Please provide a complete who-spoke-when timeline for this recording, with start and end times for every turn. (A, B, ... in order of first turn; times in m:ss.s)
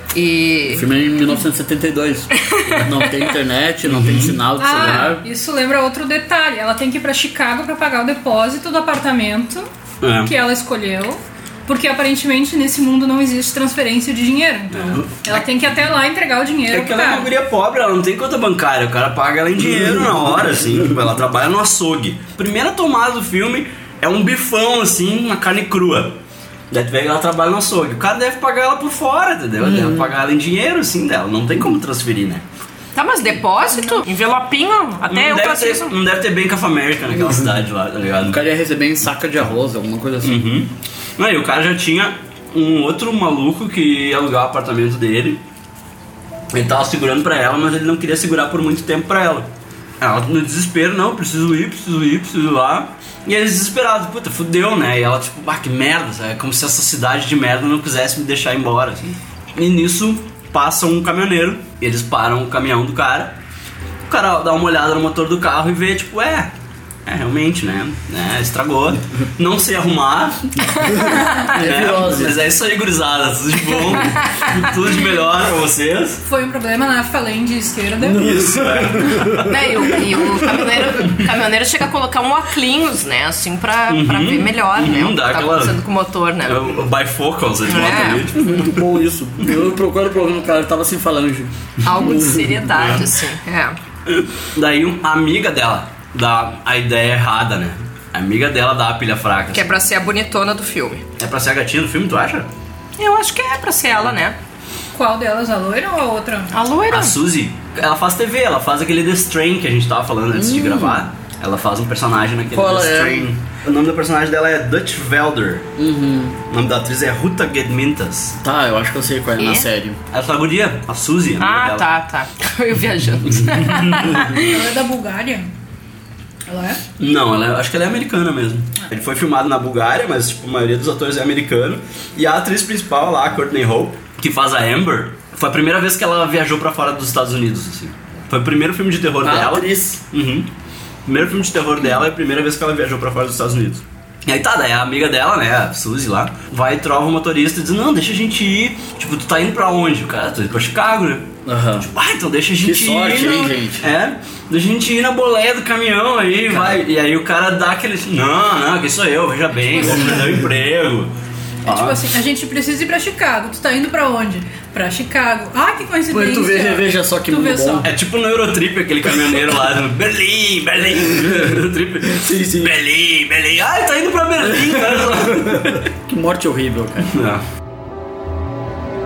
0:00.1-0:00.8 A
0:00.7-0:05.2 B
0:02.4-0:02.8 A
0:03.8-0:05.1 C
0:04.6-0:09.7 D
0:10.0-0:10.3 C
0:10.2-0:17.3 D
0:14.7-0:15.4 C
0:16.7-0:32.4 C
0:29.6-0:30.1 B
0:33.0-0:36.0 A
0:35.1-0:38.4 C
0:38.2-0:40.4 B
0:40.2-0:45.4 C
0:46.5-0:49.5 C
0:50.0-1:03.4 C
1:04.1-1:06.5 C
1:07.1-1:10.9 C
1:11.1-1:12.4 B
1:11.5-1:16.2 C
1:16.2-1:18.2 D
1:18.0-1:19.4 B
1:18.2-1:19.5 C
1:19.5-1:26.6 A
1:23.9-1:25.8 C
1:26.4-1:28.9 C
1:27.6-1:28.3 A
1:28.3-1:32.5 B
1:31.8-1:33.8 A
1:32.8-1:33.1 C
1:34.1-1:39.7 C
1:39.5-1:41.0 A
1:41.2-1:42.5 C
1:43.0-1:44.4 A
1:44.9-1:46.5 D
1:46.5-1:47.2 A
1:46.9-1:55.7 C
1:50.3-1:51.0 B
1:52.5-1:53.3 B
1:55.8-1:56.4 B
1:56.5-1:58.4 C
1:58.4-2:00.0 B
1:59.4-1:59.7 A
2:00.1-2:01.9 C
2:01.4-2:04.5 A
2:03.3-2:04.2 C
2:04.4-2:05.5 D
2:06.5-2:06.8 D
2:07.0-2:20.5 C
2:19.2-2:20.0 B
2:21.1-2:31.3 C
2:31.5-2:31.9 B
2:31.8-2:41.1 C
2:32.6-2:33.9 B
2:36.5-2:36.8 B
2:39.7-2:40.3 D
2:41.6-2:42.0 C
2:41.6-2:47.9 D
2:46.1-2:47.9 B
2:47.8-2:55.9 C
2:52.1-2:52.7 B
2:54.5-2:57.1 B
2:57.1-2:57.4 C